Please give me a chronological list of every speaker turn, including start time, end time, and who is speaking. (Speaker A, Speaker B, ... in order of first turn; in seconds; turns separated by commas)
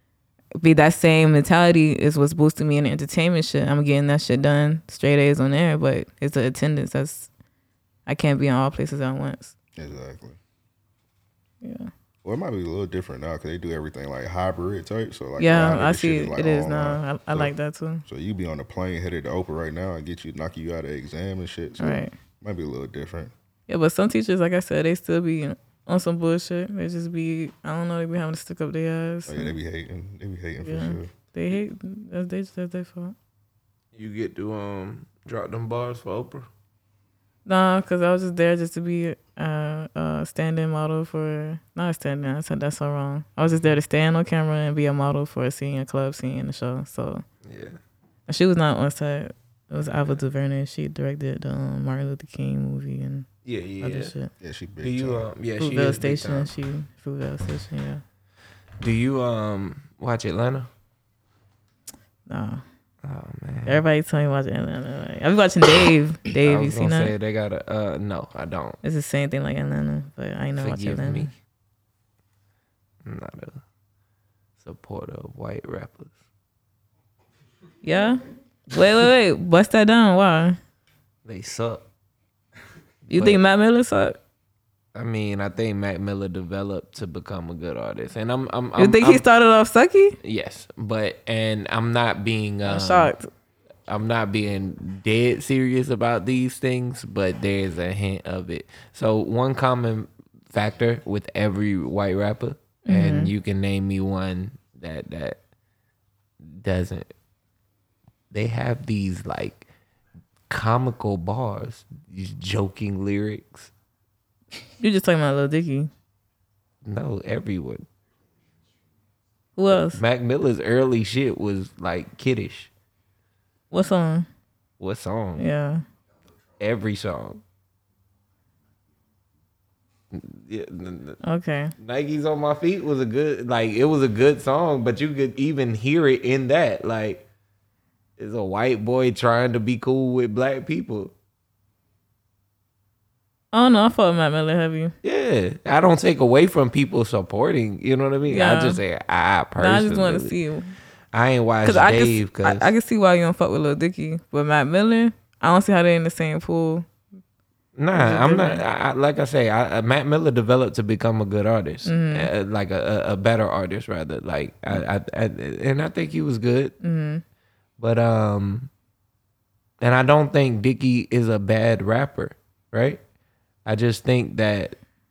Speaker A: 0.6-7.3, Speaker A: 8.1-9.5, Speaker B: 9.8-10.4, Speaker A: 11.6-11.9, Speaker B: 12.2-17.5, Speaker A: 15.4-18.0, Speaker B: 18.1-23.3, Speaker A: 21.8-22.1, Speaker A: 23.7-29.5, Speaker B: 29.3-31.1, Speaker A: 30.6-33.1, Speaker C: 34.0-36.5, Speaker A: 37.5-47.2, Speaker C: 47.5-47.8, Speaker A: 48.3-53.3, Speaker C: 53.5-54.1, Speaker A: 53.8-54.3, Speaker B: 54.4-55.3, Speaker C: 54.8-56.5, Speaker A: 55.6-58.0, Speaker C: 58.8-60.7, Speaker A: 62.3-62.6, Speaker C: 63.0-63.8, Speaker A: 63.7-67.1, Speaker C: 66.4-68.8, Speaker A: 68.8-71.3, Speaker C: 70.6-71.3, Speaker C: 73.0-73.6, Speaker C: 74.6-76.2, Speaker A: 77.8-80.6, Speaker C: 81.2-81.9, Speaker C: 83.1-83.4, Speaker A: 83.1-84.2, Speaker C: 84.9-89.2, Speaker A: 88.8-90.2, Speaker C: 90.2-93.1, Speaker A: 92.7-93.3, Speaker C: 93.9-105.4, Speaker A: 102.9-103.3, Speaker C: 106.4-107.1, Speaker C: 108.3-109.7, Speaker C: 110.5-113.7, Speaker A: 114.8-115.9, Speaker C: 116.8-117.9, Speaker A: 119.6-120.0, Speaker C: 119.8-122.7, Speaker A: 123.7-124.3, Speaker C: 124.8-125.5, Speaker A: 125.4-125.8, Speaker C: 126.6-127.4, Speaker C: 130.1-131.2, Speaker A: 131.2-131.7, Speaker C: 131.8-137.2, Speaker C: 138.2-141.1, Speaker A: 143.5-144.9, Speaker C: 145.0-150.4, Speaker A: 148.3-148.8, Speaker A: 149.6-150.7, Speaker C: 151.1-152.7, Speaker A: 151.6-156.9, Speaker C: 157.8-166.7, Speaker A: 157.9-158.6, Speaker A: 161.9-162.3, Speaker A: 166.8-167.2, Speaker C: 167.8-168.7, Speaker C: 169.8-173.0, Speaker C: 173.7-174.8